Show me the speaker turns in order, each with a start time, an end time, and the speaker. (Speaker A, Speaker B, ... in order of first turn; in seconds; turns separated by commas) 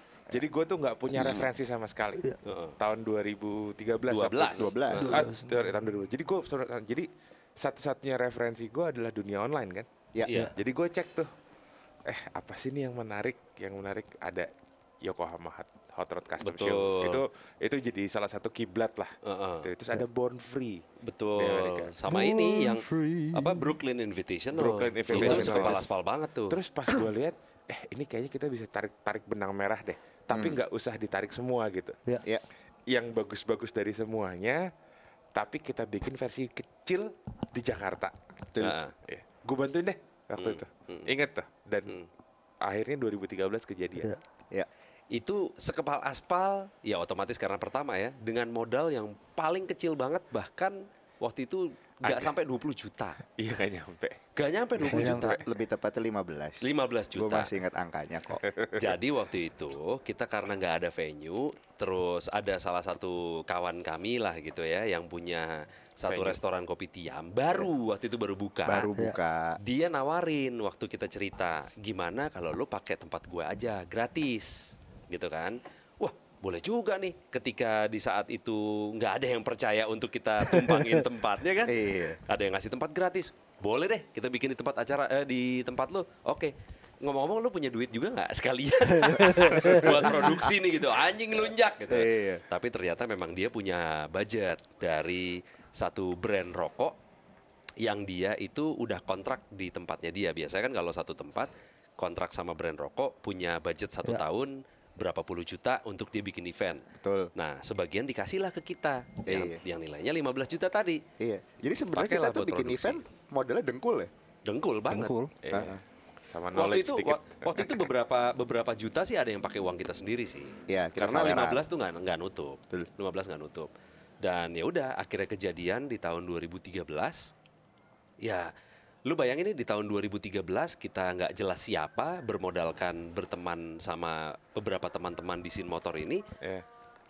Speaker A: 0.3-7.1, Speaker B: 2.4-2.8, Speaker B: 4.1-5.2, Speaker C: 4.5-5.2, Speaker D: 5.0-5.5, Speaker A: 7.6-9.9, Speaker B: 10.2-10.5, Speaker A: 10.5-11.3, Speaker A: 12.1-14.5, Speaker A: 15.0-20.8, Speaker B: 16.4-17.2, Speaker B: 19.2-19.7, Speaker B: 21.0-26.6, Speaker A: 21.4-22.0, Speaker D: 22.1-23.7, Speaker A: 24.5-25.9, Speaker D: 25.1-25.8, Speaker C: 25.2-25.7, Speaker A: 26.5-32.0, Speaker C: 30.3-30.6, Speaker A: 32.9-34.6, Speaker A: 35.3-38.1, Speaker B: 38.6-38.9, Speaker A: 39.1-42.0, Speaker B: 40.4-41.1, Speaker A: 42.6-44.1, Speaker B: 45.1-53.2, Speaker A: 53.4-54.2, Speaker B: 54.4-55.4, Speaker D: 54.9-55.3, Speaker C: 54.9-58.4, Speaker B: 56.6-57.5, Speaker A: 58.4-58.8, Speaker B: 58.8-68.9, Speaker A: 66.1-66.4, Speaker C: 68.7-69.6, Speaker B: 69.6-97.0, Speaker D: 80.5-81.0, Speaker C: 81.7-82.2, Speaker D: 89.1-90.4, Speaker C: 91.9-92.4, Speaker B: 97.8-111.0, Speaker C: 107.0-107.3, Speaker C: 109.2-109.6, Speaker C: 111.2-114.1, Speaker B: 111.9-113.0, Speaker B: 114.4-115.1, Speaker D: 114.9-115.3, Speaker A: 115.4-115.8, Speaker C: 115.5-115.8, Speaker A: 116.3-117.9, Speaker B: 116.5-123.7, Speaker C: 120.7-121.6, Speaker B: 124.2-127.3, Speaker B: 128.2-128.5, Speaker B: 129.1-136.2